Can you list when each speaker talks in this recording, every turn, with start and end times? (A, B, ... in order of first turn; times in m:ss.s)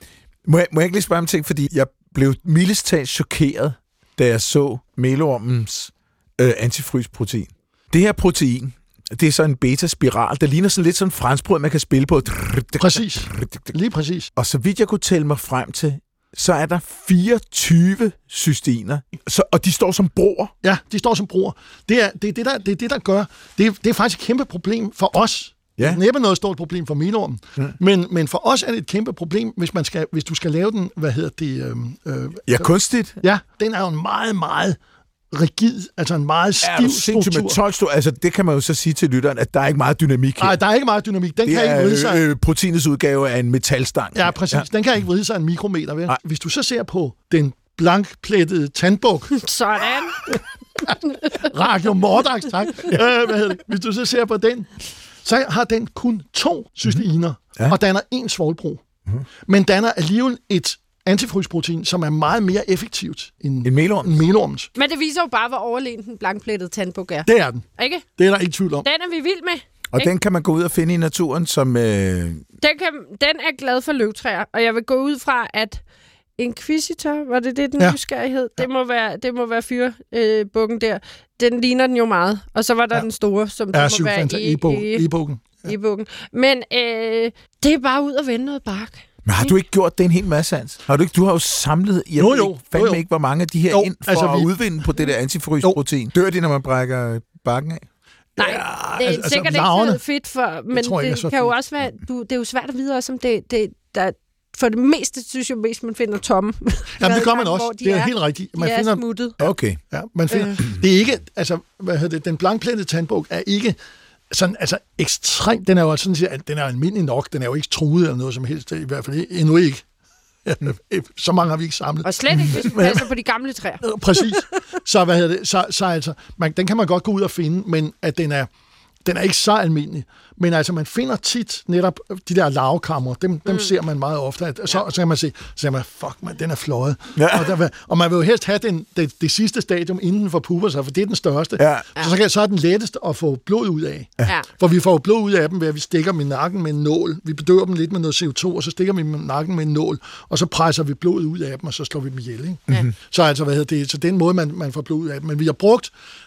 0:00.5-0:13.7 A
0:12.8-0:14.3 B
0:14.4-0:20.5 A
0:20.6-0:32.7 B
0:32.5-0:33.2 A
0:33.2-0:34.8 B
0:35.3-0:37.6 B
0:36.6-0:40.6 A
0:40.4-0:42.2 B
0:41.4-0:44.7 A
0:44.2-0:49.4 B
0:49.3-0:50.3 C
0:50.2-0:54.7 B
0:55.2-0:58.8 B
0:59.5-1:04.7 B
1:03.6-1:04.2 A
1:04.8-1:08.1 C
1:07.2-1:07.6 B
1:08.2-1:08.9 B
1:08.8-1:10.1 C
1:09.9-1:12.4 A
1:12.6-1:15.8 C
1:16.4-1:25.1 C
1:23.7-1:25.7 B
1:25.6-1:29.6 C
1:29.2-1:37.8 A
1:32.2-1:33.0 B
1:33.7-1:34.5 B
1:38.4-1:49.4 C
1:38.4-1:40.0 B
1:40.7-1:41.6 B
1:47.0-1:53.8 B
1:49.4-1:49.8 A
1:50.3-1:50.6 C
1:54.3-1:59.8 B
2:00.4-2:03.1 B
2:02.0-2:04.3 C
2:03.8-2:08.5 B
2:09.0-2:35.9 B
2:17.2-2:17.6 A
2:21.6-2:21.9 A